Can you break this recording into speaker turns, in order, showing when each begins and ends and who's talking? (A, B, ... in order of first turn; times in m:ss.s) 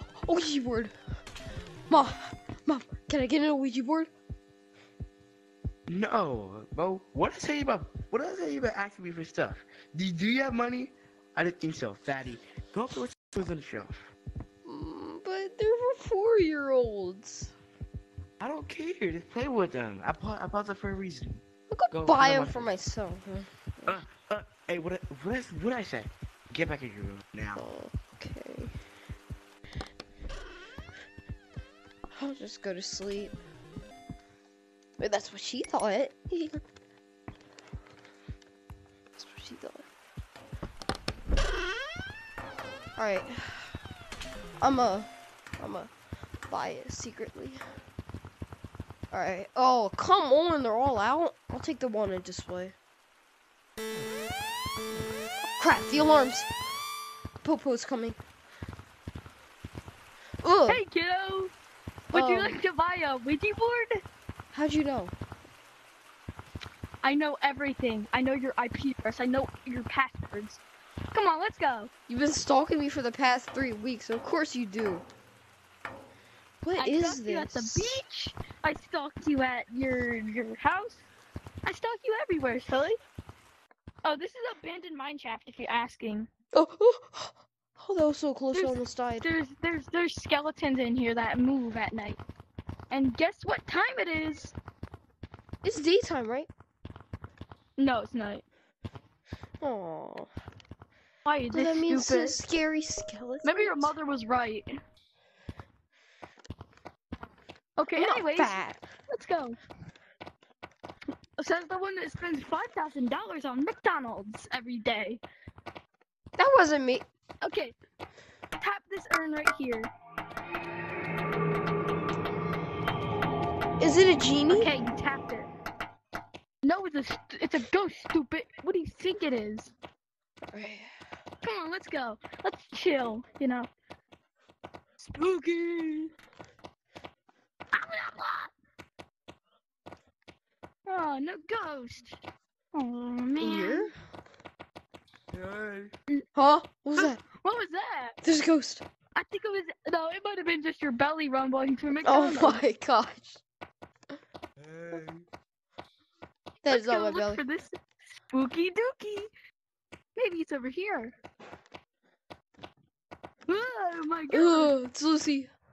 0:00.2-0:00.9 A
0:01.9-0:04.1 A
0:05.9-0:14.1 B
0:14.6-0:17.5 A
0:18.4-0:21.4 B
0:21.7-0:24.0 A
0:21.9-0:22.8 B
0:23.9-0:27.6 B
0:27.6-0:28.7 A
0:32.1-0:33.3 A
0:35.0-0:36.6 A
0:39.2-0:39.8 A
0:43.0-0:43.7 A
0:44.6-0:45.9 A
0:46.5-0:47.6 A
0:49.1-0:52.7 A
0:55.6-0:56.5 A
0:57.4-0:58.2 A
1:00.4-1:00.8 A
1:00.7-1:01.5 C
1:02.1-1:03.9 C
1:02.1-1:02.6 A
1:04.5-1:05.1 A
1:07.0-1:10.6 C
1:11.1-1:11.9 C
1:12.1-1:15.0 A
1:16.6-1:18.0 A
1:16.8-1:21.0 C
1:21.6-1:23.0 C
1:24.0-1:26.3 C
1:26.5-1:29.3 A
1:28.5-1:32.2 C
1:32.9-1:34.5 C
1:35.6-1:36.5 A
1:37.8-1:38.4 C
1:39.6-1:40.3 A
1:41.2-1:42.4 C
1:41.5-1:43.9 A
1:43.4-1:44.7 C
1:47.8-1:49.6 C
1:47.9-1:48.8 A
1:51.4-1:55.2 C
1:56.4-1:57.0 A
1:57.4-1:57.7 C
1:58.6-1:59.9 C
2:03.8-2:04.7 A
2:04.5-2:05.5 C
2:06.6-2:09.7 C
2:10.5-2:10.9 A
2:11.4-2:13.7 C
2:15.0-2:16.1 C
2:17.7-2:18.5 C
2:20.8-2:22.2 C
2:22.7-2:23.9 C
2:23.4-2:23.9 A
2:25.3-2:25.9 B
2:26.3-2:27.2 A
2:27.0-2:28.2 C
2:28.2-2:28.8 A
2:29.1-2:32.6 C
2:31.9-2:33.4 A
2:34.6-2:35.2 B
2:36.6-2:37.4 A
2:36.7-2:37.8 C
2:38.3-2:39.3 C
2:40.2-2:41.1 C
2:43.5-2:44.7 C
2:44.3-2:45.5 A